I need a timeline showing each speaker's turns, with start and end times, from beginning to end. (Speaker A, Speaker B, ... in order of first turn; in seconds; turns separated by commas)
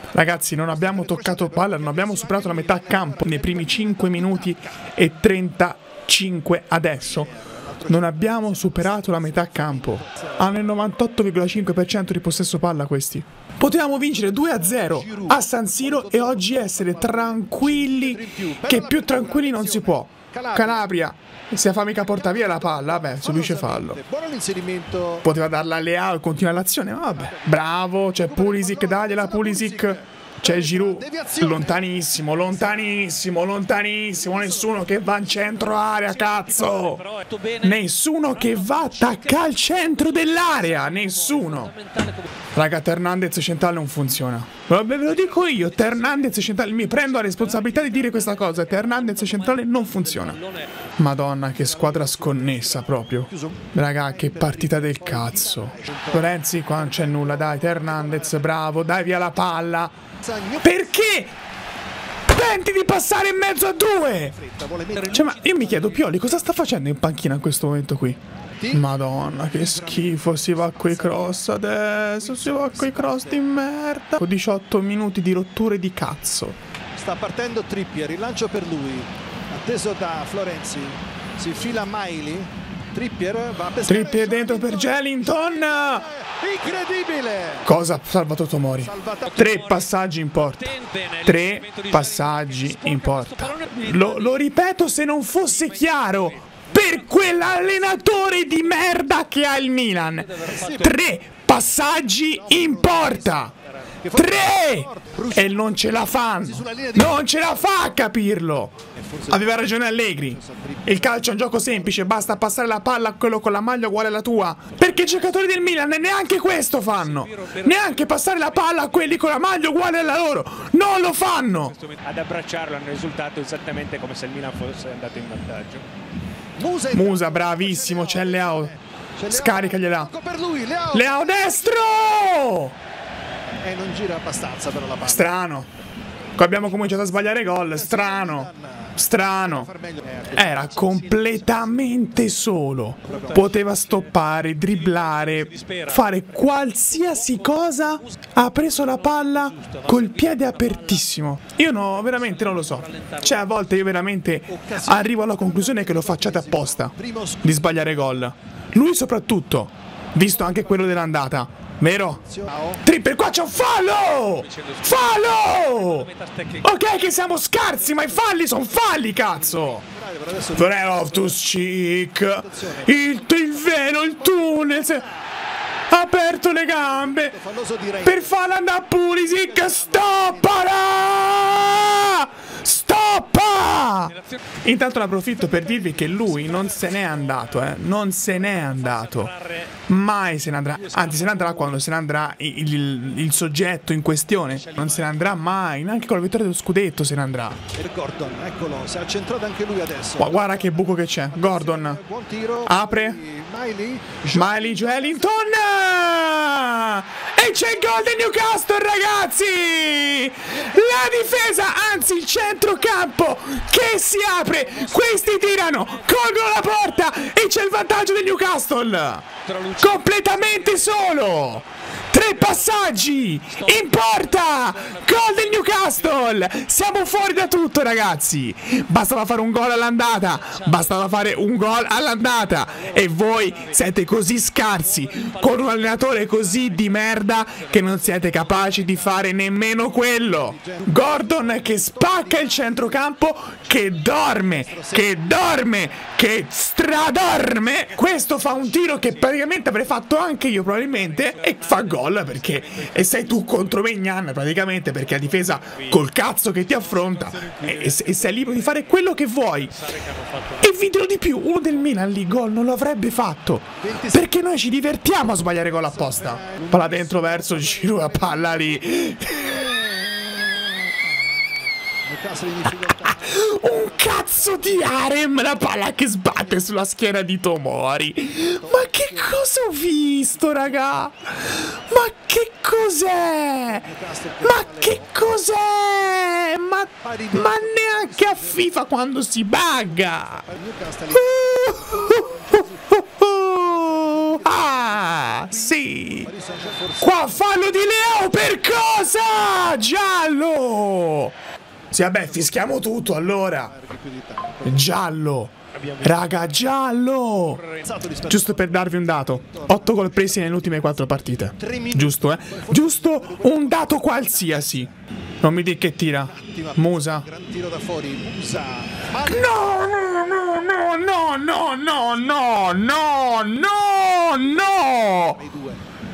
Speaker A: 0.1-7.3, Speaker B: 0.7-4.8, Speaker B: 7.0-10.5, Speaker A: 7.9-24.0, Speaker B: 14.4-20.9, Speaker B: 22.1-25.3, Speaker A: 25.2-37.0, Speaker B: 27.2-27.6, Speaker B: 28.2-31.9, Speaker C: 36.1-42.3, Speaker A: 37.6-41.7, Speaker A: 42.5-50.4, Speaker C: 45.1-50.7, Speaker A: 51.0-59.9, Speaker B: 51.6-58.4, Speaker B: 60.2-60.7, Speaker A: 60.6-61.3, Speaker A: 62.2-64.3, Speaker B: 64.3-65.3, Speaker C: 64.9-65.9, Speaker A: 65.0-68.2, Speaker B: 68.6-68.8, Speaker A: 68.7-76.6, Speaker B: 69.5-71.6, Speaker B: 72.2-73.4, Speaker B: 76.9-87.7, Speaker A: 83.8-86.1, Speaker A: 87.6-103.5, Speaker B: 88.8-89.4, Speaker C: 89.3-89.9, Speaker C: 90.4-94.4, Speaker C: 95.4-98.9, Speaker C: 100.2-101.0, Speaker B: 100.6-100.9, Speaker B: 102.3-103.5, Speaker B: 104.0-105.7, Speaker A: 104.1-108.8, Speaker B: 106.4-107.2, Speaker B: 109.0-109.6, Speaker A: 109.3-121.8, Speaker B: 110.3-112.4, Speaker C: 116.8-119.2, Speaker C: 121.7-125.8, Speaker B: 126.6-132.0, Speaker A: 126.9-128.7, Speaker A: 129.3-130.1, Speaker A: 130.9-132.8, Speaker B: 133.6-135.3, Speaker A: 135.0-135.7, Speaker A: 136.3-139.7, Speaker B: 137.7-140.5, Speaker A: 140.3-162.2, Speaker C: 140.6-141.8, Speaker C: 143.1-144.1, Speaker B: 143.1-143.3, Speaker C: 144.7-151.1, Speaker C: 151.9-153.4, Speaker B: 154.5-157.8, Speaker B: 162.2-162.8, Speaker A: 162.8-166.1, Speaker C: 164.4-166.7, Speaker A: 166.6-169.8, Speaker B: 169.4-170.9, Speaker A: 170.5-175.0, Speaker B: 172.5-172.9, Speaker B: 174.2-175.1, Speaker A: 175.9-177.4, Speaker B: 176.9-178.3, Speaker A: 178.0-189.3, Speaker B: 179.4-180.6, Speaker C: 186.2-187.6, Speaker C: 188.5-189.7, Speaker A: 189.9-197.6, Speaker C: 190.8-191.8, Speaker C: 194.5-195.2, Speaker B: 197.7-205.3, Speaker A: 200.2-202.0, Speaker A: 202.7-203.2, Speaker A: 204.3-219.2, Speaker B: 210.6-211.8, Speaker C: 214.8-216.6, Speaker C: 219.4-221.0, Speaker A: 219.8-259.8, Speaker C: 222.4-226.2, Speaker C: 230.1-231.1, Speaker C: 232.1-233.8, Speaker C: 234.8-239.2, Speaker B: 240.3-243.0, Speaker B: 244.6-245.3, Speaker C: 250.9-253.4, Speaker C: 255.3-256.0, Speaker C: 256.8-260.9, Speaker A: 260.6-270.0, Speaker B: 263.8-264.3, Speaker B: 265.7-268.8, Speaker B: 272.0-274.8, Speaker A: 273.0-283.9, Speaker B: 278.6-279.3, Speaker B: 280.4-280.8, Speaker B: 283.7-285.1, Speaker A: 284.4-290.5, Speaker B: 287.0-288.6, Speaker B: 290.4-293.0, Speaker A: 291.1-296.3, Speaker B: 293.6-297.5, Speaker A: 297.0-301.4, Speaker A: 301.9-303.7, Speaker B: 303.5-304.9, Speaker A: 304.6-307.6, Speaker C: 305.7-306.4, Speaker C: 307.6-307.9, Speaker B: 307.8-308.9, Speaker A: 308.2-314.9, Speaker B: 309.5-310.7, Speaker B: 311.5-314.6, Speaker A: 315.4-317.3, Speaker B: 316.3-319.6, Speaker A: 319.2-325.4, Speaker B: 325.4-325.8